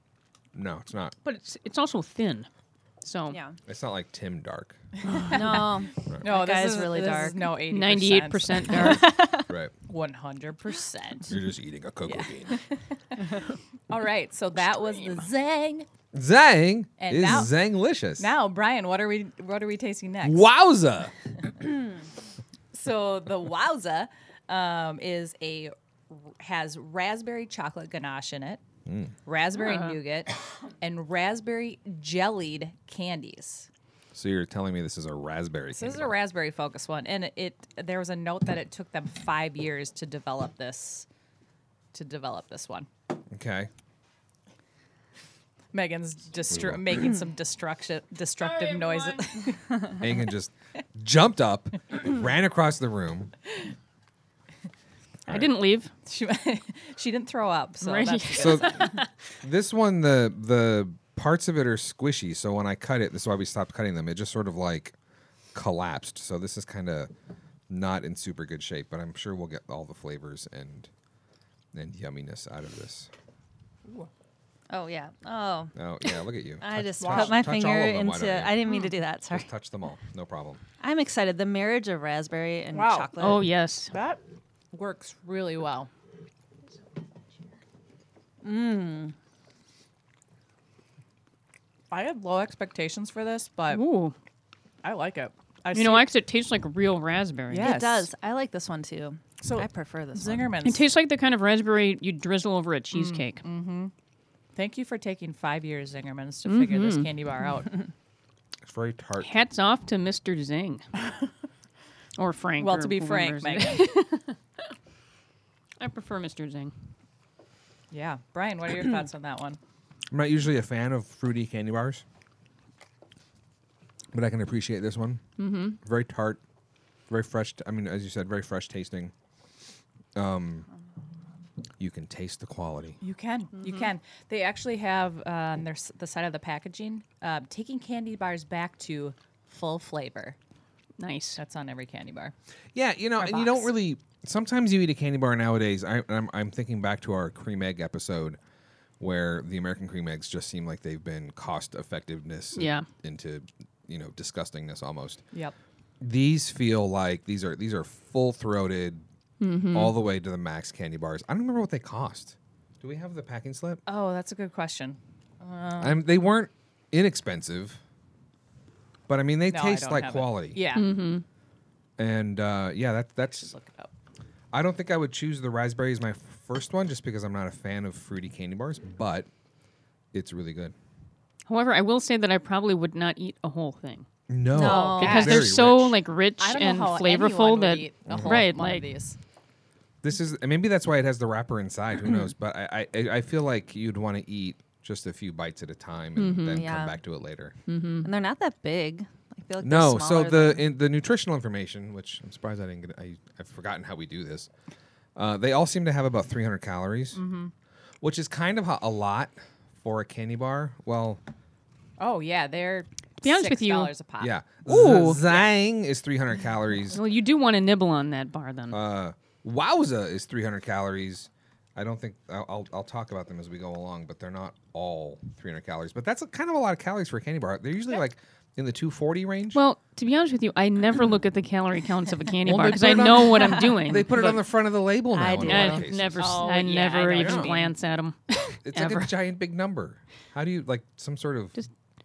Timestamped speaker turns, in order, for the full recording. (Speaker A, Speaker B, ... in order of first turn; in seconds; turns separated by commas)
Speaker A: 0.5-1.1, Speaker B: 1.2-2.5, Speaker B: 3.0-3.4, Speaker C: 3.3-3.6, Speaker A: 3.7-4.8, Speaker D: 5.0-9.1, Speaker B: 5.1-5.4, Speaker C: 5.2-7.5, Speaker B: 7.7-9.2, Speaker C: 8.7-9.5, Speaker D: 9.8-11.4, Speaker A: 11.3-12.6, Speaker D: 12.1-15.9, Speaker A: 16.1-18.3, Speaker D: 17.0-17.5, Speaker D: 18.2-20.5, Speaker A: 20.2-21.1, Speaker D: 22.7-28.6, Speaker A: 28.9-29.1, Speaker D: 29.2-33.7, Speaker B: 29.5-30.0, Speaker A: 34.1-36.1, Speaker D: 35.7-41.1, Speaker D: 41.9-42.9, Speaker A: 43.3-43.7, Speaker D: 45.7-50.0, Speaker A: 46.5-47.0, Speaker B: 48.6-49.2, Speaker A: 49.9-53.3, Speaker B: 55.3-55.9, Speaker D: 56.0-59.0, Speaker B: 57.8-59.0, Speaker A: 58.4-58.9, Speaker A: 59.4-64.9, Speaker A: 65.5-67.1, Speaker A: 67.7-70.9, Speaker A: 71.7-73.1, Speaker C: 74.7-79.5, Speaker A: 75.8-78.6, Speaker D: 77.0-77.5, Speaker A: 79.3-80.6, Speaker C: 80.8-83.5, Speaker D: 82.7-83.1, Speaker B: 83.2-83.9, Speaker D: 83.9-84.2, Speaker D: 84.7-85.9, Speaker C: 88.4-89.1, Speaker D: 91.9-93.8, Speaker B: 93.7-94.1, Speaker D: 94.8-96.1, Speaker B: 95.7-97.8, Speaker D: 97.5-98.1, Speaker C: 97.6-100.5, Speaker D: 99.4-100.8, Speaker B: 100.6-103.4, Speaker D: 102.9-103.9, Speaker D: 104.5-107.7, Speaker B: 106.5-107.1, Speaker A: 108.6-109.3, Speaker B: 109.2-110.8, Speaker B: 112.2-114.2, Speaker D: 112.6-114.0, Speaker B: 115.8-116.7, Speaker D: 117.9-119.6, Speaker A: 120.1-122.0, Speaker A: 124.1-125.2, Speaker B: 125.4-125.8, Speaker A: 125.8-126.4, Speaker A: 127.1-129.1, Speaker A: 130.1-130.7, Speaker A: 131.8-133.0, Speaker D: 133.0-140.3, Speaker B: 141.0-141.4, Speaker D: 141.4-142.3, Speaker A: 142.7-148.4, Speaker D: 143.2-143.7, Speaker A: 149.0-155.2, Speaker B: 152.6-152.8, Speaker A: 156.0-159.0, Speaker B: 159.4-159.9, Speaker A: 159.7-163.8, Speaker D: 163.8-166.0, Speaker A: 165.8-167.8, Speaker A: 169.1-170.6, Speaker D: 169.5-170.9, Speaker B: 170.7-171.2, Speaker A: 172.0-173.5, Speaker D: 173.3-173.9, Speaker A: 174.5-179.3, Speaker A: 180.1-180.7, Speaker B: 181.5-184.1, Speaker A: 184.3-186.0, Speaker C: 184.5-185.3, Speaker D: 184.6-185.4, Speaker B: 184.8-188.9, Speaker D: 186.4-189.2, Speaker A: 188.1-188.4, Speaker A: 190.0-197.6, Speaker B: 196.2-196.7, Speaker C: 196.5-197.0, Speaker B: 197.7-198.1, Speaker C: 198.0-200.7, Speaker A: 199.6-204.5, Speaker A: 205.2-207.2, Speaker D: 207.1-207.5, Speaker A: 208.0-211.2, Speaker D: 212.0-214.3, Speaker B: 213.2-213.9, Speaker A: 214.2-217.0, Speaker B: 214.6-215.2, Speaker B: 216.9-218.8, Speaker A: 218.7-229.6, Speaker B: 229.5-234.4, Speaker A: 232.4-236.4, Speaker C: 235.1-235.9, Speaker B: 235.4-239.1, Speaker D: 236.2-237.7, Speaker A: 237.1-237.6, Speaker A: 238.6-241.5